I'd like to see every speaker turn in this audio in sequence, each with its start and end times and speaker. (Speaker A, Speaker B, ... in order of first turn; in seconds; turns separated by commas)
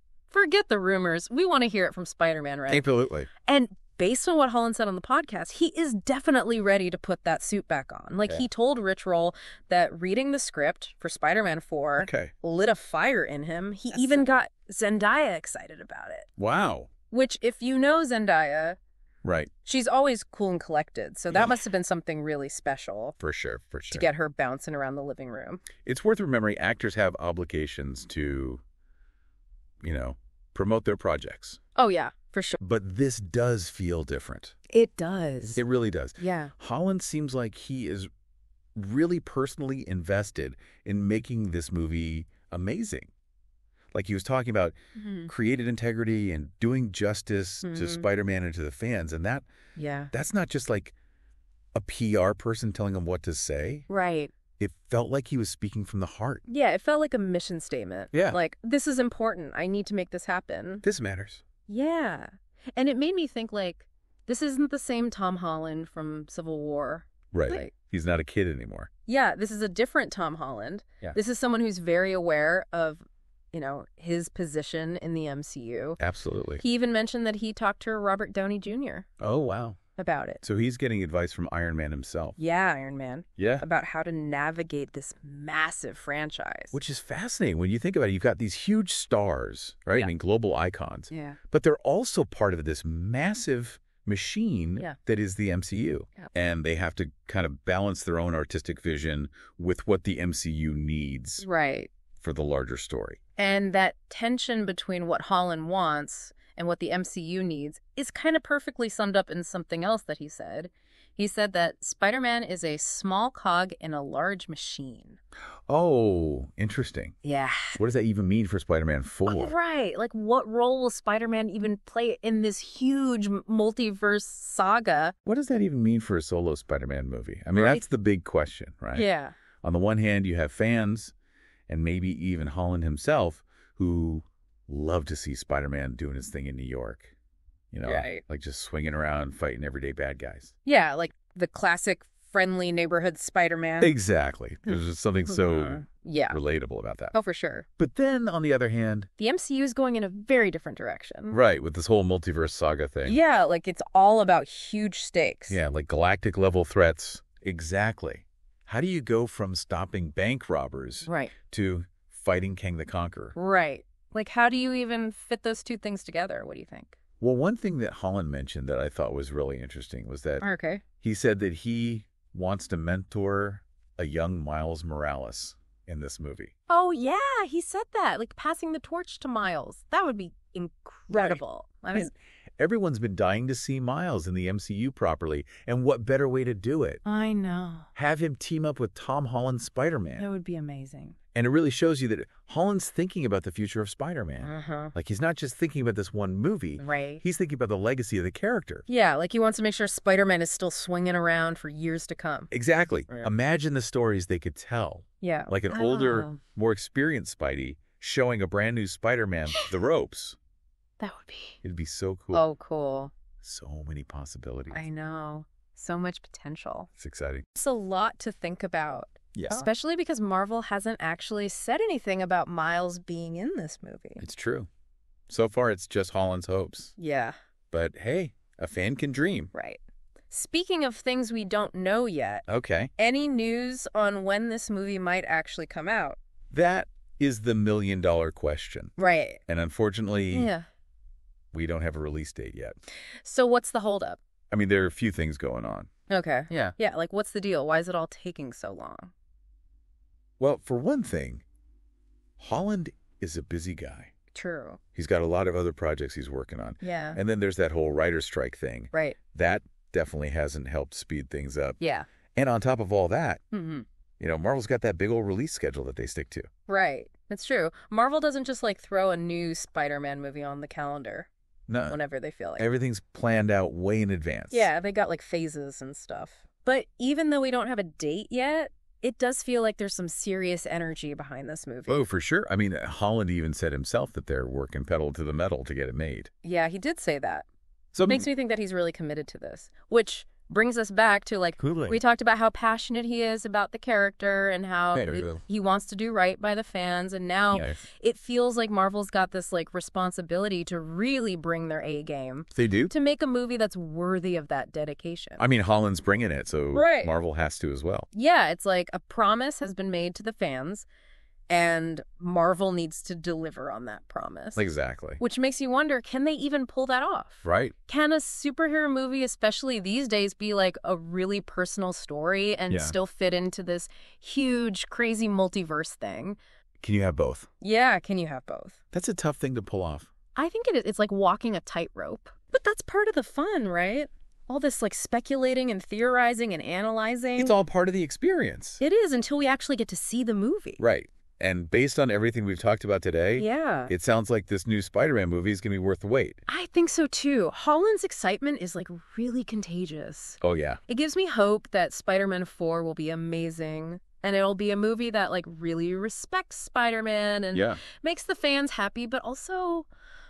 Speaker A: 0.3-2.9, Speaker B: 2.7-3.3, Speaker A: 3.4-16.3, Speaker B: 12.0-12.3, Speaker B: 13.9-14.2, Speaker B: 16.4-16.9, Speaker A: 17.1-18.8, Speaker B: 19.2-19.5, Speaker A: 19.6-23.2, Speaker B: 23.2-24.1, Speaker A: 23.9-25.6, Speaker B: 25.8-28.6, Speaker B: 29.8-31.6, Speaker A: 31.8-32.6, Speaker B: 32.6-34.5, Speaker A: 34.7-35.6, Speaker B: 35.5-38.1, Speaker A: 36.2-36.5, Speaker B: 38.7-43.1, Speaker B: 43.9-44.7, Speaker A: 44.9-45.3, Speaker B: 45.3-49.4, Speaker A: 47.6-48.0, Speaker A: 49.8-50.1, Speaker B: 50.1-50.9, Speaker B: 51.7-53.9, Speaker A: 53.9-54.3, Speaker B: 54.6-56.4, Speaker A: 56.5-60.8, Speaker B: 58.1-58.4, Speaker B: 60.8-61.4, Speaker A: 61.7-67.7, Speaker B: 67.3-68.9, Speaker A: 69.0-73.0, Speaker A: 73.5-76.0, Speaker B: 76.0-76.6, Speaker A: 76.6-79.1, Speaker B: 79.2-79.8, Speaker A: 80.0-80.4, Speaker B: 80.4-82.4, Speaker A: 82.4-86.8, Speaker B: 83.4-83.6, Speaker B: 86.7-101.4, Speaker A: 91.1-91.4, Speaker A: 101.4-101.9, Speaker B: 102.2-103.2, Speaker A: 103.4-115.2, Speaker B: 115.7-117.1, Speaker A: 117.2-117.8, Speaker B: 117.7-119.5, Speaker A: 119.3-125.1, Speaker B: 125.2-129.0, Speaker A: 127.5-127.8, Speaker A: 128.9-129.3, Speaker B: 129.6-131.1, Speaker B: 131.7-137.1, Speaker B: 137.7-140.5, Speaker A: 137.8-138.2, Speaker A: 140.6-143.9, Speaker B: 143.8-147.1, Speaker A: 145.3-146.4, Speaker A: 147.1-147.6, Speaker B: 147.8-149.1, Speaker A: 149.2-151.4, Speaker B: 151.3-153.2, Speaker A: 153.0-155.6, Speaker B: 155.5-163.3, Speaker A: 161.0-161.3, Speaker A: 163.3-166.9, Speaker B: 167.2-170.4, Speaker A: 170.4-170.8, Speaker B: 171.0-176.5, Speaker A: 176.7-182.1, Speaker B: 181.1-181.4, Speaker B: 181.9-187.0, Speaker A: 187.0-187.9, Speaker B: 187.9-190.2, Speaker A: 190.2-191.2, Speaker B: 191.3-198.9, Speaker A: 194.4-194.9, Speaker A: 196.8-197.2, Speaker A: 198.9-202.5, Speaker B: 202.5-210.4, Speaker A: 205.2-206.4, Speaker A: 211.0-211.6, Speaker B: 211.6-212.4, Speaker A: 212.3-213.1, Speaker B: 213.4-214.8, Speaker A: 214.7-216.9, Speaker B: 217.0-217.4, Speaker A: 217.6-224.2, Speaker B: 219.3-219.7, Speaker B: 224.2-224.7, Speaker B: 225.3-226.9, Speaker A: 227.0-227.3, Speaker B: 227.7-229.5, Speaker A: 229.5-232.4, Speaker B: 232.5-232.9, Speaker A: 233.0-236.2, Speaker B: 236.5-238.9, Speaker A: 239.0-239.4, Speaker B: 239.5-240.5, Speaker A: 240.3-240.7, Speaker B: 241.5-242.7, Speaker A: 243.2-244.2, Speaker B: 244.5-245.9, Speaker A: 246.1-249.1, Speaker B: 246.5-246.8, Speaker B: 250.4-251.4, Speaker B: 252.4-254.1, Speaker A: 254.3-254.8, Speaker B: 254.9-261.8, Speaker A: 256.8-257.2, Speaker A: 258.9-259.2, Speaker A: 261.8-262.1, Speaker B: 262.4-263.4, Speaker A: 263.5-263.8, Speaker B: 264.2-266.5, Speaker A: 266.7-271.3, Speaker B: 271.7-272.0, Speaker A: 271.9-272.6, Speaker B: 272.6-274.7, Speaker A: 274.5-282.1, Speaker B: 281.9-286.3, Speaker A: 286.4-287.4, Speaker B: 287.9-288.3, Speaker A: 288.0-305.4, Speaker B: 291.6-292.0, Speaker B: 294.9-295.4, Speaker B: 297.5-297.8, Speaker B: 302.5-302.9, Speaker B: 305.4-308.1, Speaker A: 306.7-307.1, Speaker A: 308.1-310.9, Speaker A: 311.5-314.7, Speaker B: 314.6-315.2, Speaker A: 315.2-326.4, Speaker B: 317.4-317.7, Speaker B: 322.7-323.0, Speaker B: 326.8-327.5, Speaker A: 327.6-328.8, Speaker B: 328.9-330.1, Speaker A: 330.3-337.5, Speaker B: 337.4-338.8, Speaker A: 338.8-340.8, Speaker B: 340.8-346.4, Speaker A: 343.4-343.9, Speaker A: 346.5-359.9, Speaker B: 350.4-350.8, Speaker B: 357.5-357.8